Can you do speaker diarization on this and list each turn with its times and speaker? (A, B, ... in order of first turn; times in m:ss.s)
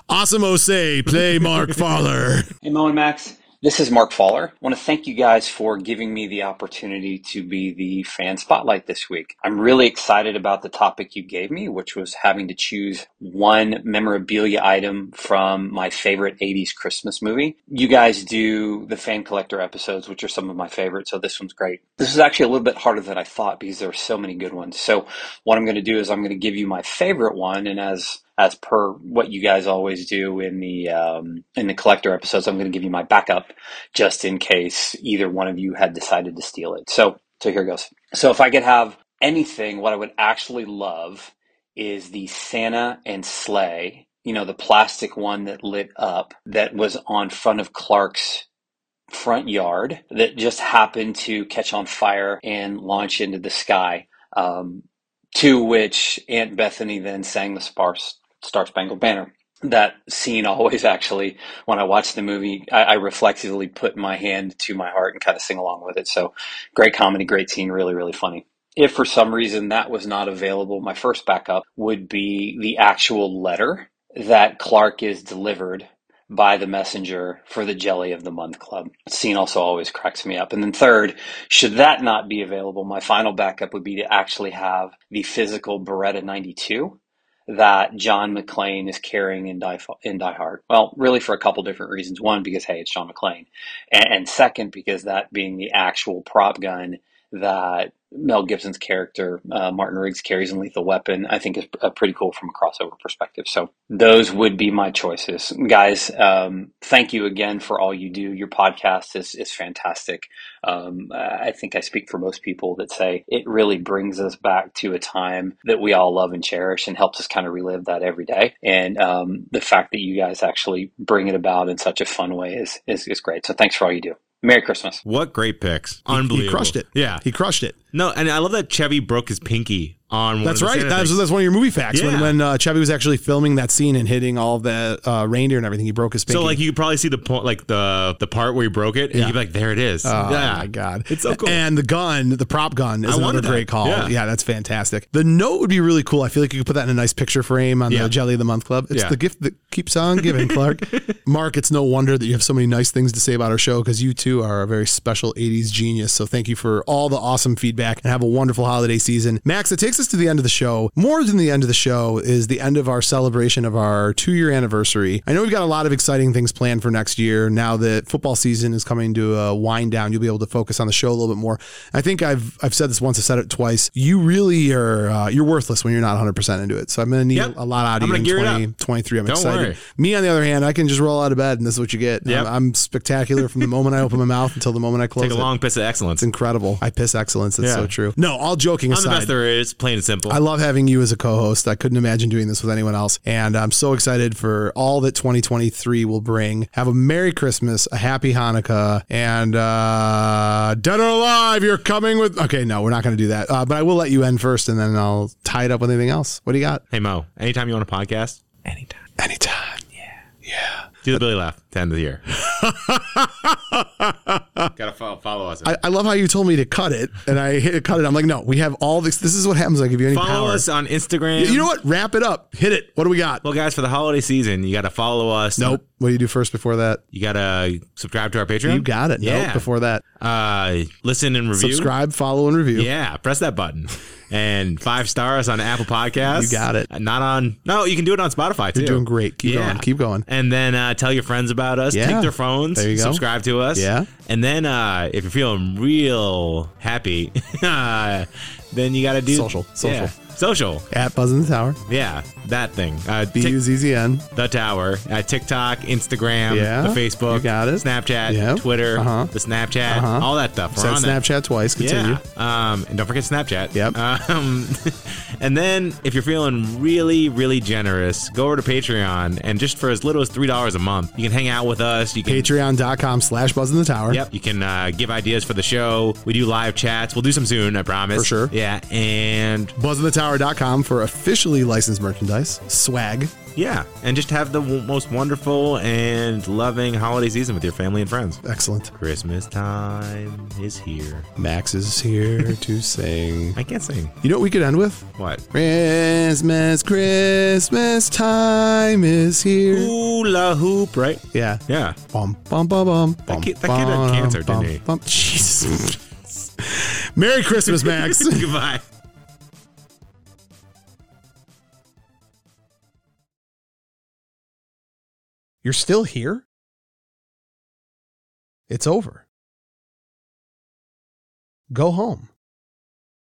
0:00.1-0:02.5 A
0:02.6-0:48.5 B
0:49.1-2:05.0 B
2:05.0-2:07.2 C
2:06.1-2:07.8 A
2:07.9-2:11.2 C
2:10.4-2:16.6 A
2:11.9-2:12.4 C
2:16.3-2:21.6 C
2:20.0-3:05.5 A
2:23.1-2:24.2 C
2:27.9-2:28.1 C
2:28.9-2:29.2 C
2:30.2-2:31.2 C
2:57.3-2:58.7 C
2:59.2-2:59.8 C
3:02.2-3:02.5 C
3:05.2-3:06.2 C
3:06.2-3:09.3 A
3:07.6-3:07.9 C
3:08.9-3:10.4 C
3:10.3-3:26.8 A
3:26.9-3:29.0 C
3:29.2-3:29.8 A
3:30.4-3:31.2 A
3:31.0-3:32.2 C
3:32.3-3:34.7 A
3:34.8-3:35.8 C
3:35.6-3:40.6 A
3:40.1-3:41.7 C
3:41.4-3:43.4 A
3:43.4-3:45.8 C
3:45.6-3:47.0 A
3:47.1-3:49.7 C
3:48.7-3:50.0 A
3:50.2-3:51.9 C
3:51.6-3:52.9 A
3:52.8-4:10.9 C
3:56.3-3:56.9 A
3:58.7-4:00.2 A
4:01.9-4:03.2 A
4:03.7-4:04.1 A
4:09.3-4:10.1 A
4:10.9-4:11.8 A
4:11.9-4:13.6 C
4:13.3-4:14.3 A
4:14.3-4:21.2 C
4:16.5-4:19.3 A
4:19.9-4:22.2 A
4:21.8-4:32.5 C
4:32.3-4:34.2 A
4:34.1-4:39.7 C
4:38.1-4:38.5 A
4:39.8-4:43.3 A
4:43.6-4:48.4 C
4:48.4-4:48.9 A
4:48.9-4:51.3 C
4:51.4-4:53.6 A
4:53.6-4:54.1 C
4:54.2-4:59.9 A
4:55.2-4:55.4 C
4:59.7-5:02.0 C
5:01.3-5:06.0 A
5:03.3-5:04.8 C
5:06.6-5:08.5 A
5:07.7-5:08.8 C
5:15.6-5:16.4 A
5:18.7-5:19.3 A
5:21.7-5:22.3 A